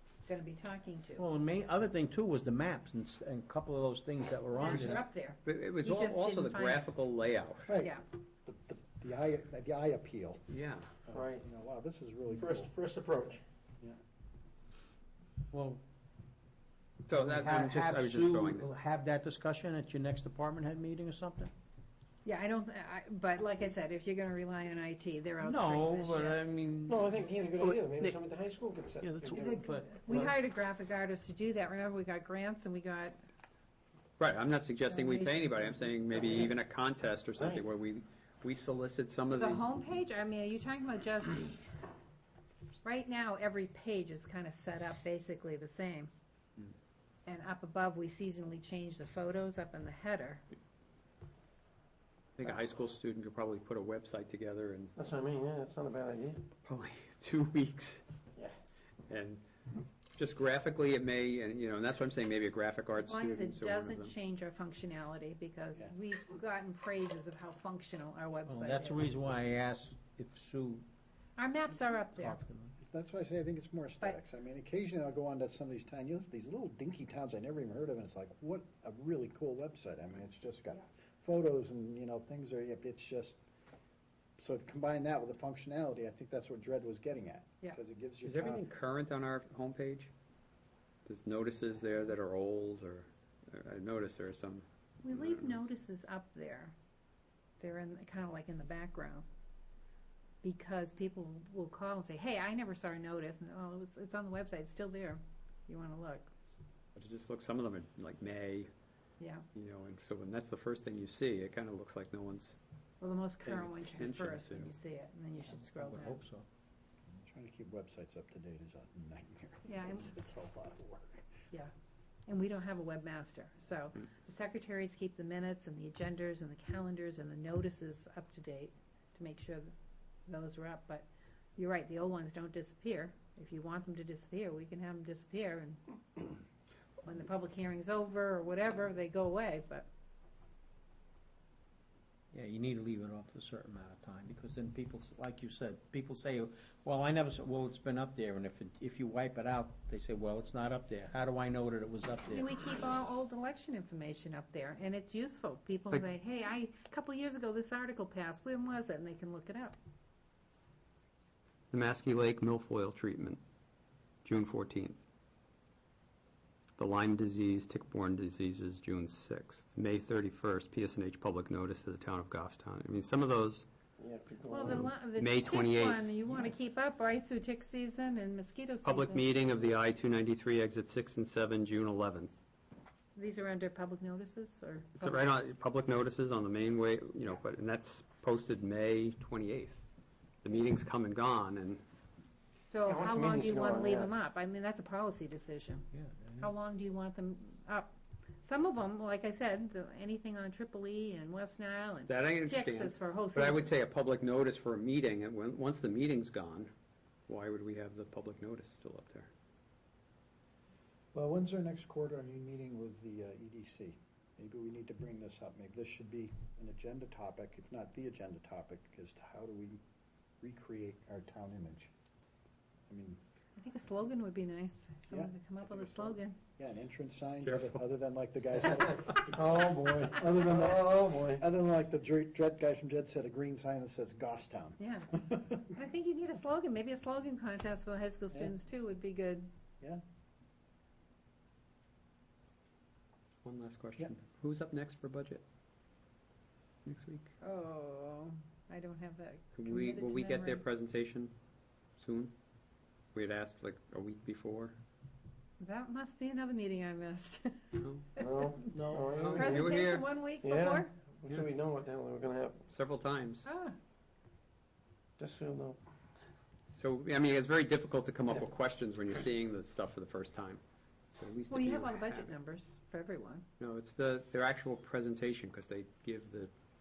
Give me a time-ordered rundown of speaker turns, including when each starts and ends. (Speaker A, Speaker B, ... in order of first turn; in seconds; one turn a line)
Speaker A: 0.3-1.2
Speaker B: 1.2-5.0
Speaker A: 4.6-6.8
Speaker C: 4.7-7.7
Speaker D: 7.7-7.9
Speaker A: 7.8-8.0
Speaker D: 8.5-10.4
Speaker C: 10.5-10.9
Speaker D: 11.0-12.7
Speaker E: 11.1-11.4
Speaker E: 12.3-13.4
Speaker B: 15.5-15.8
Speaker B: 17.1-21.5
Speaker C: 17.1-18.7
Speaker A: 22.2-26.4
Speaker B: 25.4-27.1
Speaker E: 26.9-30.3
Speaker A: 29.5-33.1
Speaker B: 29.5-29.9
Speaker C: 34.2-39.7
Speaker A: 34.9-35.9
Speaker A: 39.3-41.6
Speaker A: 42.8-46.1
Speaker A: 47.2-50.4
Speaker C: 52.4-54.9
Speaker E: 55.0-56.4
Speaker C: 56.6-58.0
Speaker C: 59.1-59.4
Speaker C: 60.1-64.1
Speaker A: 62.9-69.2
Speaker B: 68.5-70.8
Speaker A: 71.4-72.4
Speaker B: 72.2-72.7
Speaker D: 72.8-83.4
Speaker D: 84.4-88.6
Speaker C: 88.2-90.1
Speaker C: 91.0-95.6
Speaker A: 95.0-96.8
Speaker A: 97.6-99.2
Speaker A: 100.4-106.2
Speaker C: 107.0-108.7
Speaker A: 109.2-109.4
Speaker C: 109.5-112.6
Speaker A: 113.0-116.2
Speaker C: 113.4-114.7
Speaker B: 115.5-116.4
Speaker D: 117.2-121.3
Speaker A: 119.7-120.1
Speaker A: 122.3-129.7
Speaker A: 130.3-136.4
Speaker A: 137.0-139.9
Speaker B: 142.3-152.5
Speaker A: 152.3-159.8
Speaker C: 161.7-163.4
Speaker C: 164.2-165.0
Speaker C: 166.8-173.7
Speaker E: 174.0-174.9
Speaker A: 174.5-179.4
Speaker C: 175.2-176.2
Speaker C: 178.8-182.4
Speaker A: 183.2-185.2
Speaker C: 185.0-189.8
Speaker C: 190.4-191.8
Speaker A: 192.7-195.8
Speaker E: 192.8-194.1
Speaker B: 195.9-196.5
Speaker A: 196.4-203.7
Speaker C: 202.1-206.7
Speaker C: 207.3-209.3
Speaker D: 211.1-219.8
Speaker D: 220.4-221.9
Speaker D: 222.9-223.2
Speaker A: 223.6-226.4
Speaker D: 225.1-229.4
Speaker C: 227.5-227.8
Speaker E: 228.7-231.4
Speaker D: 230.0-235.6
Speaker A: 234.8-239.4
Speaker C: 243.4-245.4
Speaker C: 246.8-247.3
Speaker A: 247.4-250.6
Speaker C: 249.5-251.3
Speaker C: 252.0-252.3
Speaker C: 253.1-254.8
Speaker A: 255.6-258.6
Speaker C: 257.8-258.1
Speaker E: 258.2-259.8
Speaker B: 258.7-259.2
Speaker C: 259.1-260.1
Speaker A: 259.2-260.9
Speaker E: 260.4-262.6
Speaker C: 262.7-263.5
Speaker A: 263.4-263.7
Speaker E: 265.2-265.8
Speaker C: 266.7-270.6
Speaker C: 271.2-272.3
Speaker A: 271.5-273.4
Speaker C: 273.6-276.5